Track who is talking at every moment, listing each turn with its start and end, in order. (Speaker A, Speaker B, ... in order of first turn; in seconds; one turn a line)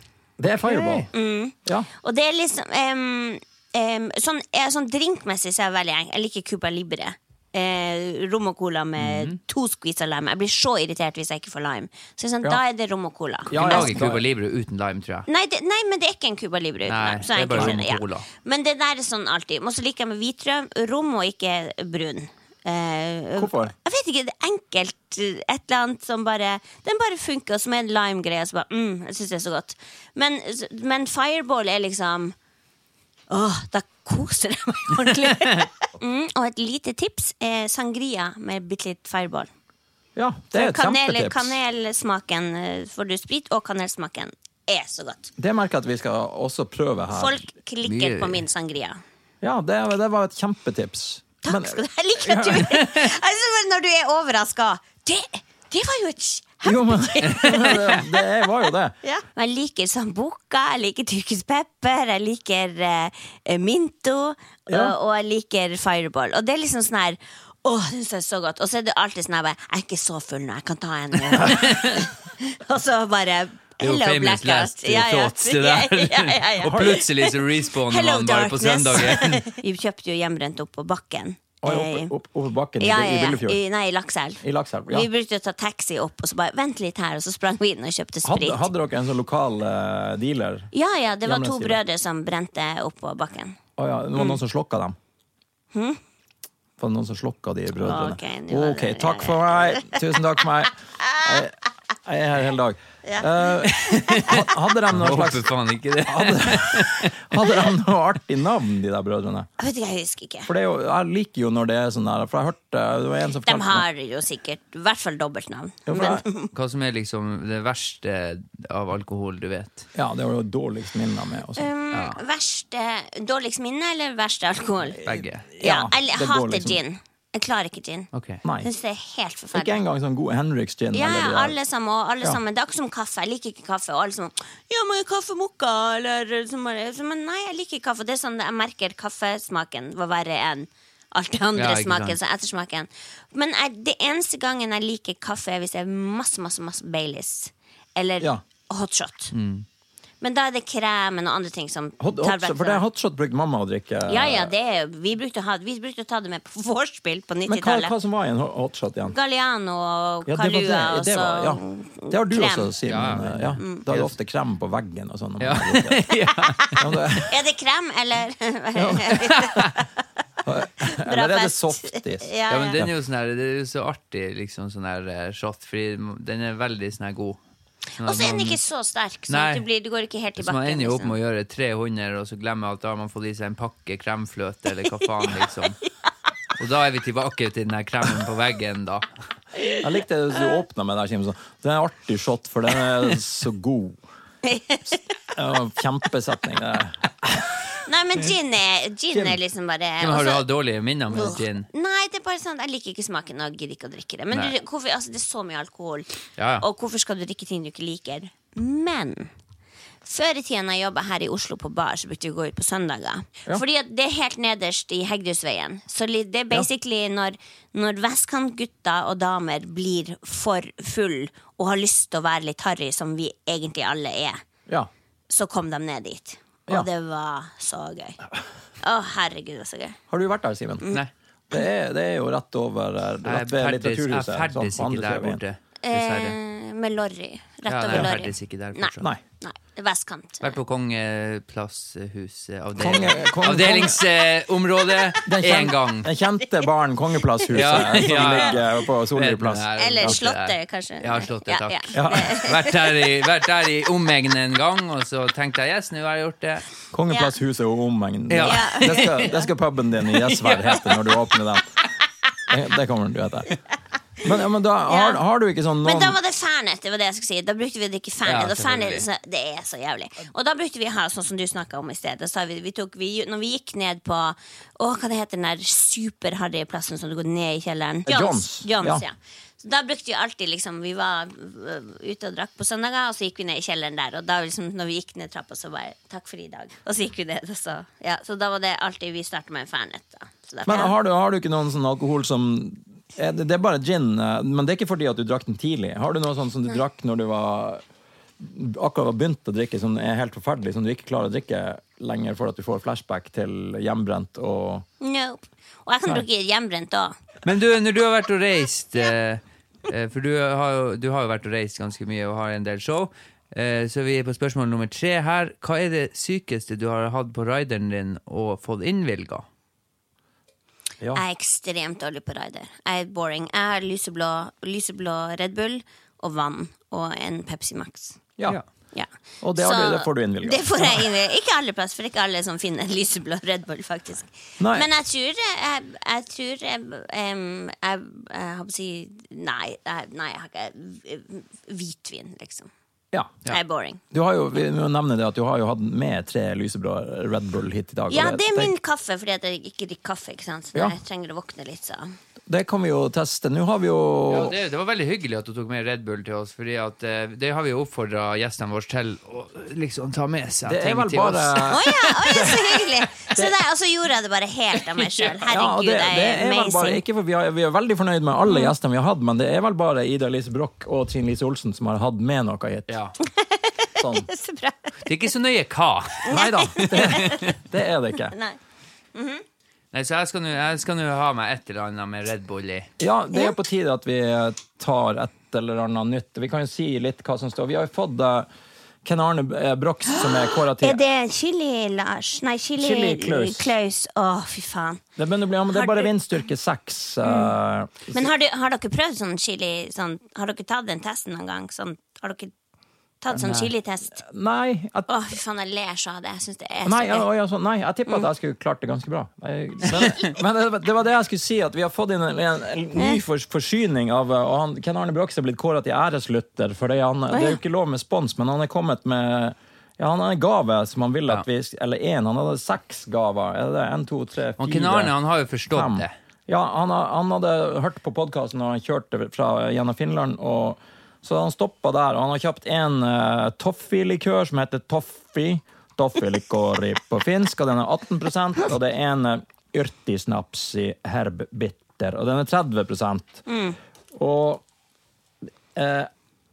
Speaker A: 0.4-1.1
Speaker B: 0.7-1.1
Speaker C: 1.1-14.0
Speaker B: 9.0-9.4
Speaker A: 13.5-14.2
Speaker B: 13.5-15.3
Speaker C: 15.3-32.4
Speaker B: 16.9-18.3
Speaker A: 17.5-17.8
Speaker A: 23.4-23.7
Speaker C: 33.3-39.5
Speaker B: 35.3-35.6
Speaker A: 40.2-41.5
Speaker C: 40.5-45.3
Speaker A: 45.4-47.4
Speaker C: 47.1-49.0
Speaker B: 47.8-48.4
Speaker A: 49.4-52.7
Speaker C: 51.5-82.1
Speaker B: 52.6-53.1
Speaker A: 56.6-59.0
Speaker B: 57.2-57.8
Speaker A: 64.7-65.0
Speaker B: 71.3-72.0
Speaker B: 73.8-79.4
Speaker A: 76.6-77.0
Speaker A: 81.6-83.6
Speaker C: 82.8-88.7
Speaker A: 84.4-85.1
Speaker A: 88.2-90.7
Speaker C: 90.7-93.6
Speaker A: 91.2-91.8
Speaker A: 93.8-95.0
Speaker C: 95.7-96.0
Speaker A: 96.8-105.5
Speaker C: 97.8-100.2
Speaker C: 101.0-101.5
Speaker C: 103.0-104.0
Speaker B: 103.8-107.5
Speaker A: 106.1-109.5
Speaker C: 109.6-110.5
Speaker A: 110.5-113.9
Speaker C: 113.4-116.5
Speaker A: 115.9-116.2
Speaker B: 116.5-119.9
Speaker A: 120.0-121.7
Speaker C: 121.6-125.1
Speaker B: 121.9-122.2
Speaker B: 125.0-125.5
Speaker A: 125.0-126.8
Speaker C: 125.6-128.1
Speaker B: 128.1-128.4
Speaker A: 128.4-128.7
Speaker C: 128.6-129.8
Speaker A: 129.5-131.6
Speaker C: 130.9-149.3
Speaker B: 141.6-142.2
Speaker B: 149.3-149.7
Speaker C: 150.2-152.8
Speaker A: 152.0-154.5
Speaker C: 154.1-157.9
Speaker A: 157.5-159.2
Speaker C: 159.1-162.8
Speaker A: 160.3-166.1
Speaker B: 162.9-164.1
Speaker C: 163.6-163.8
Speaker B: 165.4-166.8
Speaker C: 166.5-169.9
Speaker A: 166.8-167.4
Speaker A: 168.8-169.2
Speaker B: 169.1-169.8
Speaker A: 170.4-172.9
Speaker C: 170.8-172.8
Speaker B: 172.5-177.4
Speaker B: 178.0-178.6
Speaker C: 178.0-181.2
Speaker B: 179.3-179.7
Speaker B: 180.4-185.8
Speaker B: 186.6-189.1
Speaker A: 189.8-194.0
Speaker C: 194.4-195.0
Speaker A: 195.3-197.6
Speaker C: 197.8-200.4
Speaker A: 199.1-199.4
Speaker B: 200.0-201.7
Speaker C: 201.1-209.3
Speaker B: 206.4-206.7
Speaker C: 210.1-224.4
Speaker C: 225.3-228.2
Speaker C: 228.8-230.0
Speaker A: 230.1-230.9
Speaker A: 231.5-235.4
Speaker B: 233.2-236.4
Speaker C: 235.8-240.6
Speaker B: 237.7-239.1
Speaker B: 240.4-246.1
Speaker A: 242.8-244.0
Speaker A: 245.2-250.2
Speaker B: 247.5-256.6
Speaker C: 247.6-248.6
Speaker C: 249.8-253.1
Speaker A: 251.9-252.4
Speaker A: 256.9-261.7
Speaker B: 258.3-259.4
Speaker C: 258.4-259.4
Speaker B: 260.1-261.4
Speaker A: 262.5-263.6
Speaker A: 264.2-266.2
Speaker C: 264.9-265.2
Speaker C: 265.8-290.9
Speaker B: 268.2-269.1
Speaker A: 278.1-279.0
Speaker A: 290.7-297.8
Speaker A: 298.4-304.9
Speaker C: 305.0-307.2
Speaker B: 307.4-319.5
Speaker C: 321.1-328.2
Speaker C: 328.9-342.7
Speaker A: 329.4-331.1
Speaker A: 334.6-334.9
Speaker A: 343.1-343.4
Speaker C: 343.5-344.0
Speaker A: 344.1-348.7
Speaker C: 348.1-352.2
Speaker A: 352.5-354.6
Speaker B: 354.3-362.0
Speaker A: 360.7-363.5
Speaker C: 361.7-367.0
Speaker B: 364.9-365.4
Speaker A: 365.5-372.9
Speaker C: 368.5-368.7
Speaker B: 372.9-373.2
Speaker C: 373.2-375.0
Speaker A: 374.0-374.3
Speaker B: 375.0-377.6
Speaker C: 376.3-377.5
Speaker A: 376.3-378.4
Speaker C: 378.2-378.6
Speaker C: 379.1-379.4
Speaker B: 379.9-382.9
Speaker A: 383.0-388.5
Speaker A: 389.0-391.0
Speaker C: 390.2-395.0
Speaker A: 392.8-393.7
Speaker A: 395.2-398.3
Speaker C: 395.7-396.1
Speaker C: 397.2-397.6
Speaker C: 398.1-402.5
Speaker C: 403.2-404.2
Speaker A: 403.3-405.1
Speaker C: 405.1-407.3
Speaker A: 406.9-425.1
Speaker C: 413.0-413.2
Speaker C: 417.3-417.6
Speaker B: 424.6-426.1
Speaker A: 425.7-443.4
Speaker C: 443.5-443.8
Speaker A: 444.1-444.6
Speaker A: 445.7-446.1